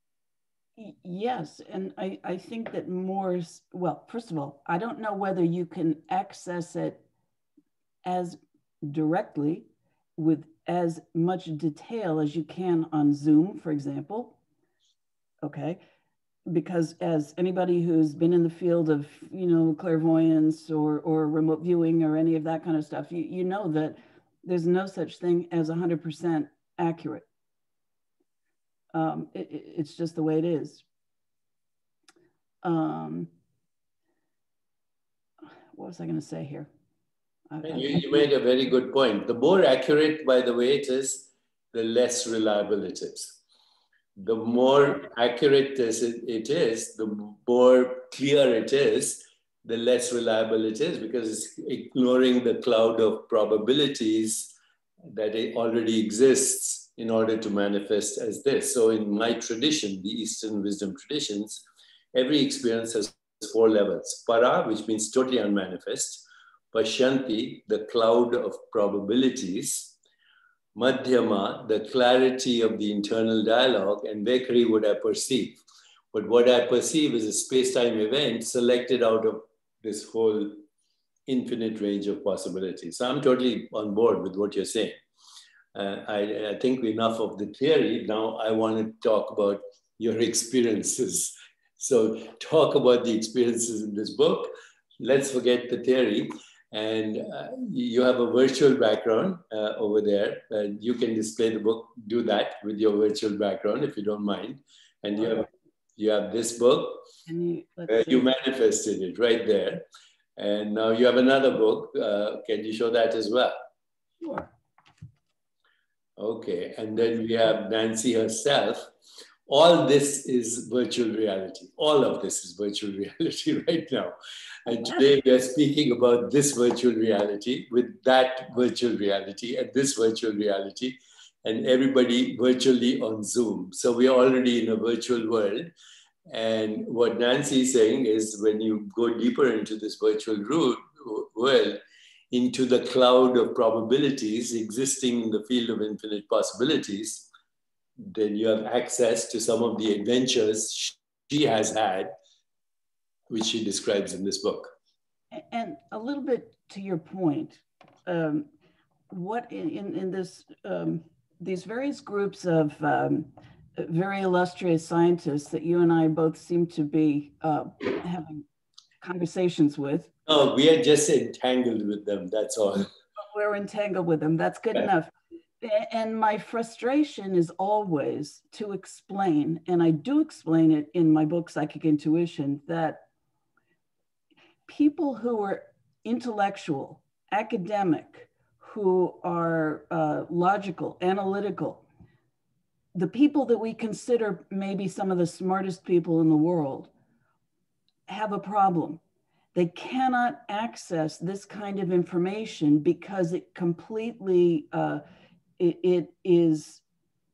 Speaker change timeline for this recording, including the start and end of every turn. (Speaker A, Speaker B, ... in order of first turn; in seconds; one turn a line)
Speaker A: 0.8-7.0
Speaker A: 8.1-14.4
Speaker A: 15.4-15.8
Speaker A: 16.5-27.3
Speaker A: 28.9-30.8
Speaker A: 32.6-33.3
Speaker A: 35.7-36.7
Speaker A: 37.5-38.3
Speaker B: 37.6-43.4
Speaker B: 44.2-54.5
Speaker B: 55.1-70.0
Speaker B: 70.8-75.6
Speaker B: 76.1-80.6
Speaker B: 81.3-85.0
Speaker B: 85.7-107.1
Speaker A: 107.3-108.3
Speaker B: 107.9-109.9
Speaker B: 110.4-113.5
Speaker A: 114.2-114.5
Speaker B: 116.2-118.9
Speaker B: 119.5-124.2
Speaker B: 124.7-135.7
Speaker B: 136.3-141.8
Speaker B: 142.3-147.3
Speaker B: 148.0-152.1
Speaker B: 153.3-154.7
Speaker A: 155.3-158.5
Speaker A: 159.1-168.5
Speaker A: 169.0-170.1
Speaker B: 170.3-172.9
Speaker A: 173.2-183.0
Speaker A: 184.7-191.8
Speaker A: 192.9-196.9
Speaker A: 198.1-199.0
Speaker A: 199.5-205.0
Speaker A: 205.6-206.8